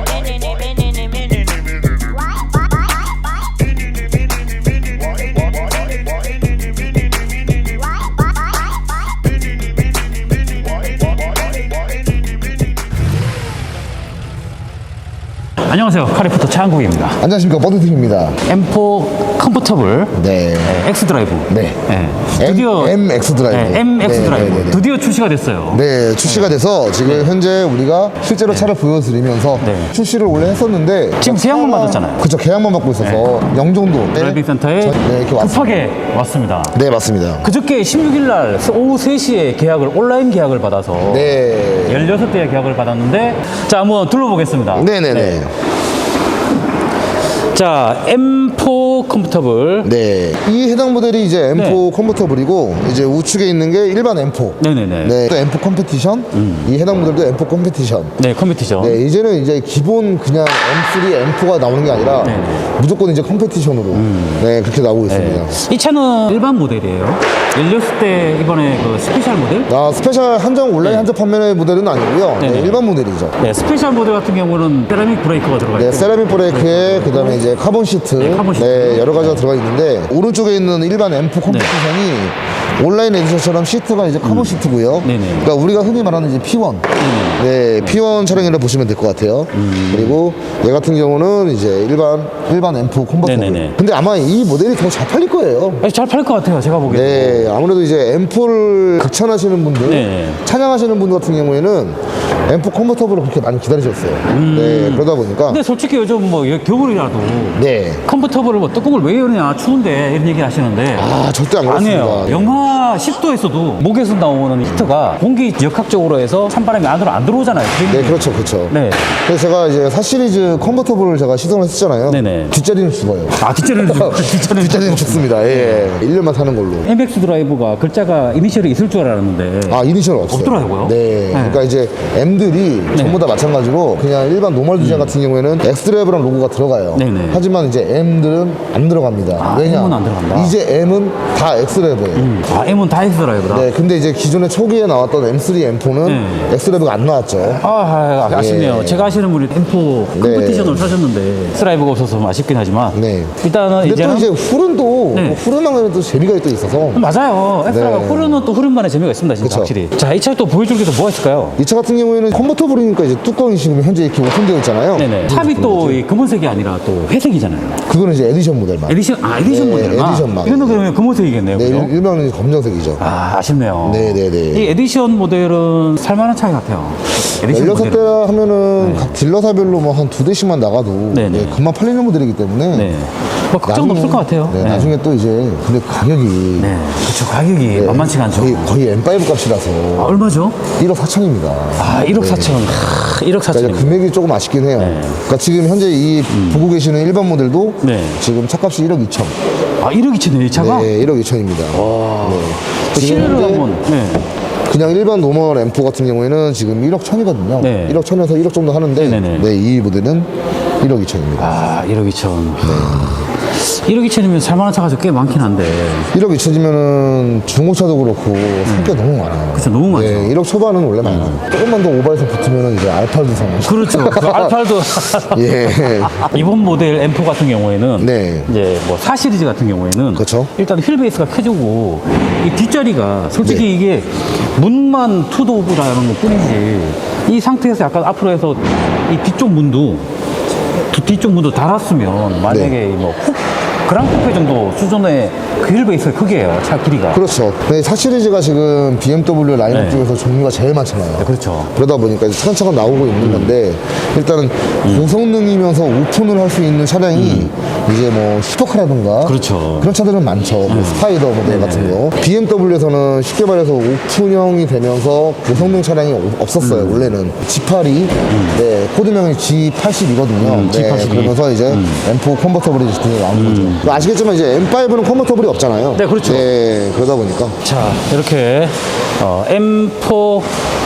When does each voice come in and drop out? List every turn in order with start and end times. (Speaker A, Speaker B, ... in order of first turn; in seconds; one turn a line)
Speaker A: 15.6-17.2
Speaker B: 17.2-18.4
Speaker A: 18.4-27.3
Speaker B: 20.1-20.8
Speaker B: 21.5-24.9
Speaker B: 25.7-35.9
Speaker A: 28.5-28.7
Speaker A: 29.6-29.9
Speaker A: 31.2-32.3
Speaker A: 33.0-33.3
Speaker A: 34.1-36.8
Speaker B: 36.7-37.5
Speaker A: 37.4-45.5
Speaker B: 41.0-42.1
Speaker B: 44.7-45.5
Speaker A: 47.3-49.9
Speaker B: 49.8-58.1
Speaker A: 51.5-51.8
Speaker A: 54.6-55.2
Speaker A: 56.3-56.8
Speaker A: 58.2-59.0
Speaker B: 58.8-65.6
Speaker A: 62.2-62.7
Speaker A: 63.9-64.5
Speaker A: 65.1-69.7
Speaker B: 69.7-73.3
Speaker A: 70.8-71.1
Speaker A: 72.4-72.8
Speaker A: 73.4-77.4
Speaker B: 75.7-95.8
Speaker A: 78.2-79.5
Speaker A: 81.5-81.7
Speaker A: 84.2-85.5
Speaker A: 87.0-88.5
Speaker A: 89.5-90.2
Speaker A: 93.2-93.8
Speaker A: 95.8-97.5
Speaker B: 96.9-105.6
Speaker A: 99.8-100.4
Speaker A: 104.3-111.1
Speaker B: 107.5-108.0
Speaker B: 110.9-112.6
Speaker A: 111.7-119.2
Speaker B: 117.8-126.9
Speaker A: 122.1-122.5
Speaker A: 123.4-126.0
Speaker A: 126.8-131.7
Speaker B: 129.7-142.3
Speaker A: 132.9-133.2
Speaker A: 134.8-135.2
Speaker A: 136.9-137.4
Speaker A: 139.4-140.6
Speaker A: 142.2-143.7
Speaker B: 143.5-147.6
Speaker A: 146.0-146.6
Speaker A: 147.4-154.3
Speaker B: 148.3-149.2
Speaker B: 150.1-150.9
Speaker B: 152.9-157.0
Speaker A: 155.1-155.4
Speaker A: 156.9-161.6
Speaker B: 157.7-158.5
Speaker B: 159.4-159.7
Speaker B: 161.6-166.0
Speaker A: 164.9-167.8
Speaker B: 167.9-170.9
Speaker A: 168.9-171.9
Speaker B: 171.5-173.0
Speaker A: 173.0-178.2
Speaker B: 173.8-174.8
Speaker B: 177.4-182.9
Speaker A: 178.8-179.2
Speaker A: 181.1-181.6
Speaker A: 182.7-184.9
Speaker B: 183.7-186.7
Speaker A: 186.6-188.7
Speaker B: 187.7-192.8
Speaker A: 190.0-190.6
Speaker A: 191.8-194.1
Speaker B: 193.5-199.3
Speaker A: 194.8-195.2
Speaker A: 196.3-196.7
Speaker A: 197.8-198.2
Speaker A: 199.8-201.0
Speaker B: 200.6-203.7
Speaker A: 201.7-204.3
Speaker B: 204.7-210.3
Speaker A: 207.6-208.0
Speaker A: 209.0-209.5
Speaker B: 210.8-211.6
Speaker A: 211.4-216.1
Speaker B: 212.6-213.3
Speaker B: 216.1-226.5
Speaker A: 218.7-219.0
Speaker A: 219.5-220.4
Speaker A: 221.0-221.4
Speaker A: 223.6-240.1
Speaker B: 228.0-228.5
Speaker B: 230.2-230.5
Speaker A: 240.8-247.3
Speaker B: 242.5-242.7
Speaker B: 247.1-277.6
Speaker A: 249.7-250.1
Speaker A: 251.2-251.7
Speaker A: 253.2-253.5
Speaker A: 254.8-255.1
Speaker A: 257.1-257.5
Speaker A: 259.2-259.9
Speaker A: 260.7-262.0
Speaker A: 265.5-265.8
Speaker A: 266.6-267.1
Speaker A: 268.3-268.6
Speaker A: 270.4-272.0
Speaker A: 273.3-274.1
Speaker A: 275.9-276.5
Speaker A: 277.6-280.5